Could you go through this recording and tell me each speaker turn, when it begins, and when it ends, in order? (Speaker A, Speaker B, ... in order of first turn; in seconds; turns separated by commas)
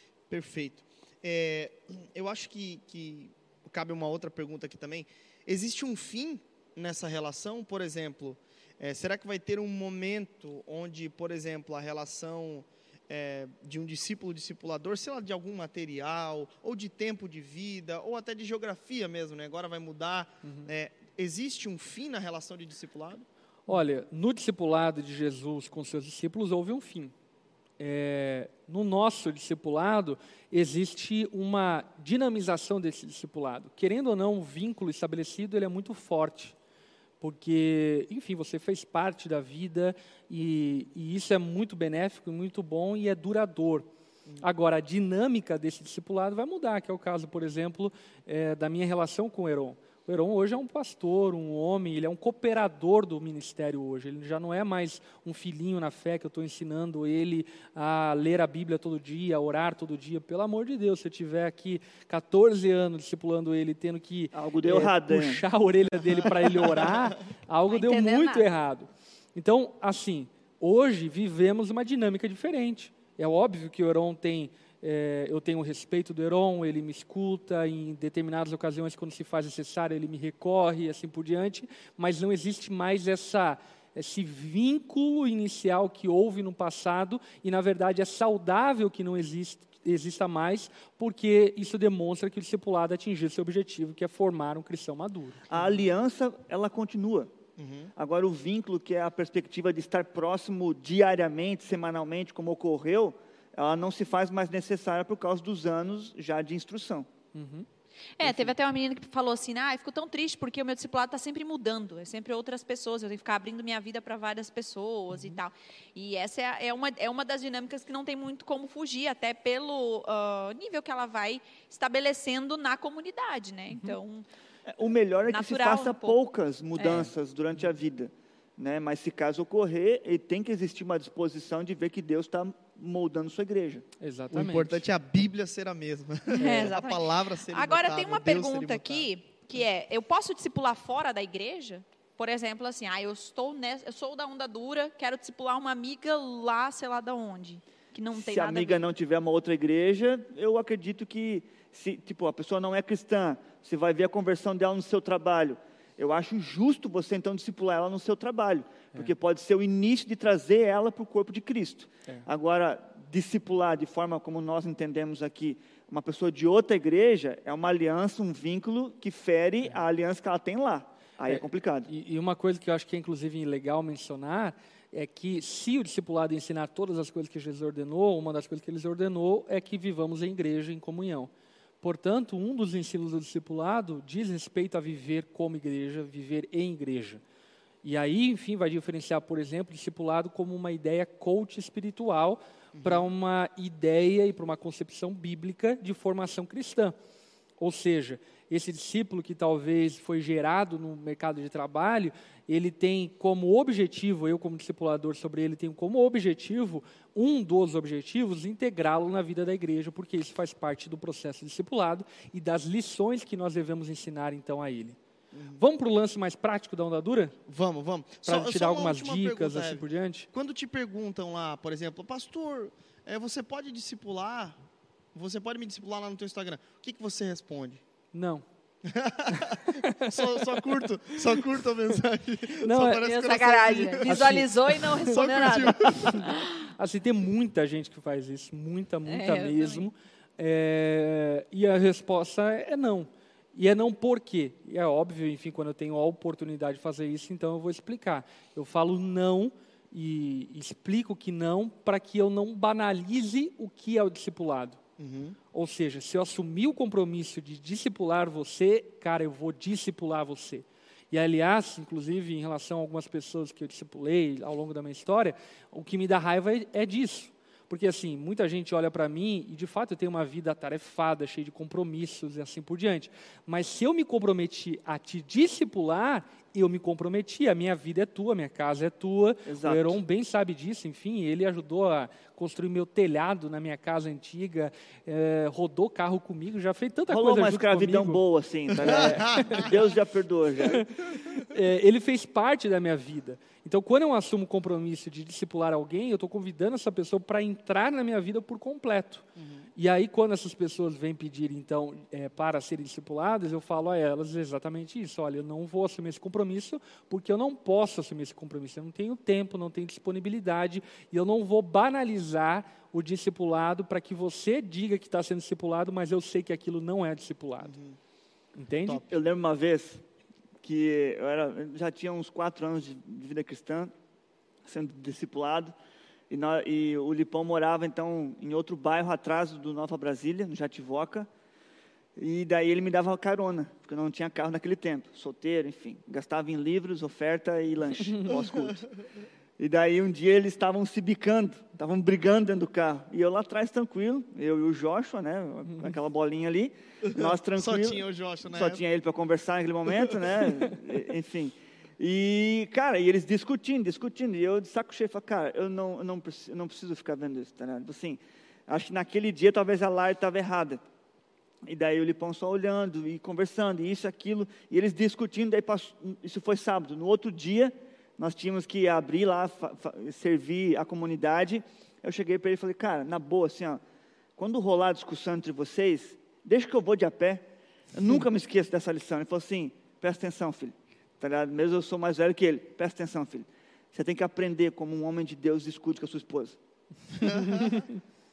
Speaker A: 0.3-23.3, Speaker B: 20.4-20.7, Speaker B: 23.7-27.1, Speaker B: 27.8-36.5, Speaker B: 37.2-43.9, Speaker B: 44.4-95.5, Speaker C: 64.3-65.4, Speaker D: 67.7-68.5, Speaker C: 95.5-97.3, Speaker A: 97.6-97.9, Speaker C: 98.0-107.1, Speaker B: 107.3-107.7, Speaker D: 108.2-124.3, Speaker C: 108.2-108.5, Speaker C: 124.7-133.8, Speaker D: 125.3-126.2, Speaker D: 126.8-127.1, Speaker B: 134.0-134.8, Speaker A: 134.3-139.1, Speaker D: 136.3-148.8, Speaker C: 148.1-171.9, Speaker B: 171.3-187.2, Speaker B: 187.8-196.9, Speaker A: 192.7-193.0, Speaker B: 197.6-215.0, Speaker A: 215.3-215.6, Speaker B: 215.6-217.4, Speaker A: 217.5-224.6, Speaker B: 218.2-220.3, Speaker A: 225.1-227.8, Speaker B: 228.1-228.4, Speaker A: 228.9-236.3, Speaker B: 229.3-230.6, Speaker B: 232.6-233.1, Speaker D: 233.0-236.7, Speaker B: 234.1-235.1, Speaker B: 236.0-254.8, Speaker D: 239.1-239.9, Speaker A: 255.0-255.4, Speaker B: 255.5-288.2, Speaker C: 279.5-280.0, Speaker C: 287.1-290.9, Speaker B: 288.8-289.8, Speaker A: 288.9-289.6, Speaker B: 290.7-317.8, Speaker A: 299.4-299.7, Speaker A: 317.6-318.0, Speaker B: 318.6-319.0, Speaker C: 319.1-320.0, Speaker C: 320.6-323.9, Speaker C: 324.6-325.7, Speaker C: 326.3-331.3, Speaker C: 332.2-338.9, Speaker A: 338.4-338.6, Speaker C: 339.6-360.8, Speaker A: 347.1-348.8, Speaker C: 361.6-373.8, Speaker C: 374.4-386.6